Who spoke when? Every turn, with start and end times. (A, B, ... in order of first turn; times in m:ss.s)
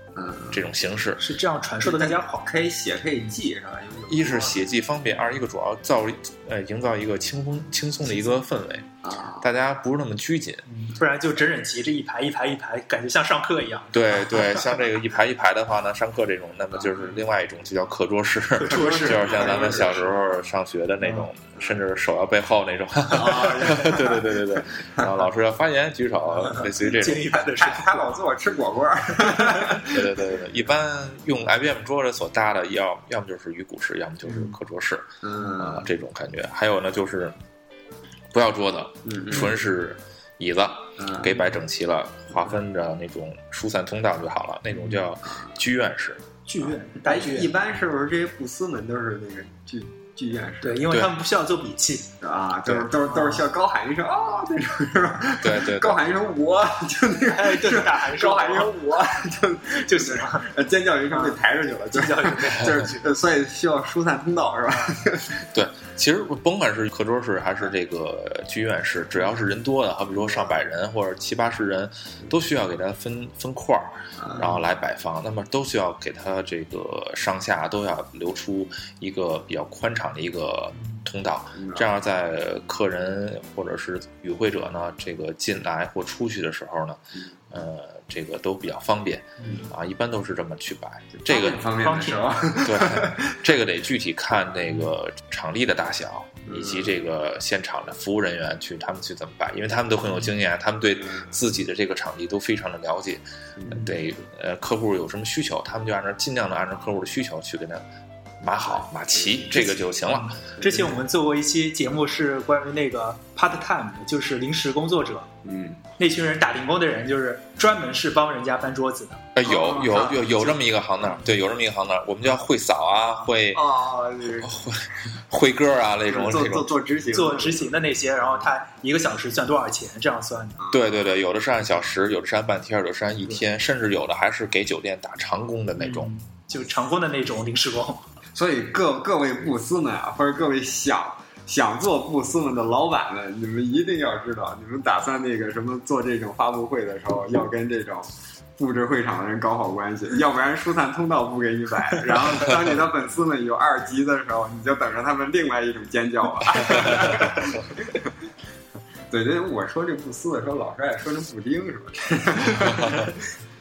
0:00.2-0:00.7 A
0:00.5-0:01.2 B
0:01.2-0:02.4 C
0:01.8-0:04.6 A
0:04.1-0:10.6 B
0:09.0-0:09.5 A
0:10.7-0:14.6 C
0:13.9-0:27.4 B
0:16.8-0:17.1 A
0:18.6-0:19.6 C
0:18.6-0:20.1 A
0:21.0-0:21.3 C
0:23.1-0:25.1 A
0:26.4-0:28.1 C
0:27.3-0:30.1 A
0:29.8-0:37.4 B
0:35.2-0:35.9 A
0:38.3-0:46.2 B
0:39.0-0:39.5 A
0:41.0-0:41.4 A
0:45.3-0:45.5 A
0:46.5-0:47.5 C
0:47.0-0:50.8 A
0:50.6-0:52.1 C
0:52.2-1:05.5 A
0:53.1-0:53.4 C
0:55.4-0:56.0 B
0:57.2-0:58.8 C
0:59.7-1:00.5 C
1:01.1-1:01.4 C
1:01.9-1:03.0 C
1:05.5-1:31.6 B
1:14.2-1:14.6 A
1:20.7-1:21.0 C
1:21.6-1:21.9 A
1:27.1-1:27.4 A
1:29.4-1:29.7 C
1:31.2-1:33.4 A
1:31.8-1:32.3 C
1:32.6-1:47.8 B
1:36.5-1:36.9 A
1:41.0-1:41.3 A
1:43.6-1:43.8 A
1:48.4-1:50.4 B
1:49.2-1:49.5 A
1:50.0-1:55.3 C
1:50.6-1:51.0 A
1:55.4-1:55.8 A
1:56.0-1:59.3 C
1:59.3-2:03.6 B
1:59.4-2:00.5 A
2:03.5-2:04.6 A
2:04.4-2:06.7 B
2:06.1-2:07.7 A
2:07.1-2:10.6 C
2:10.6-2:10.8 A
2:10.7-2:16.1 B
2:15.8-2:18.0 C
2:18.3-2:38.1 A
2:36.7-2:37.1 B
2:39.1-2:43.2 A
2:42.7-2:43.1 B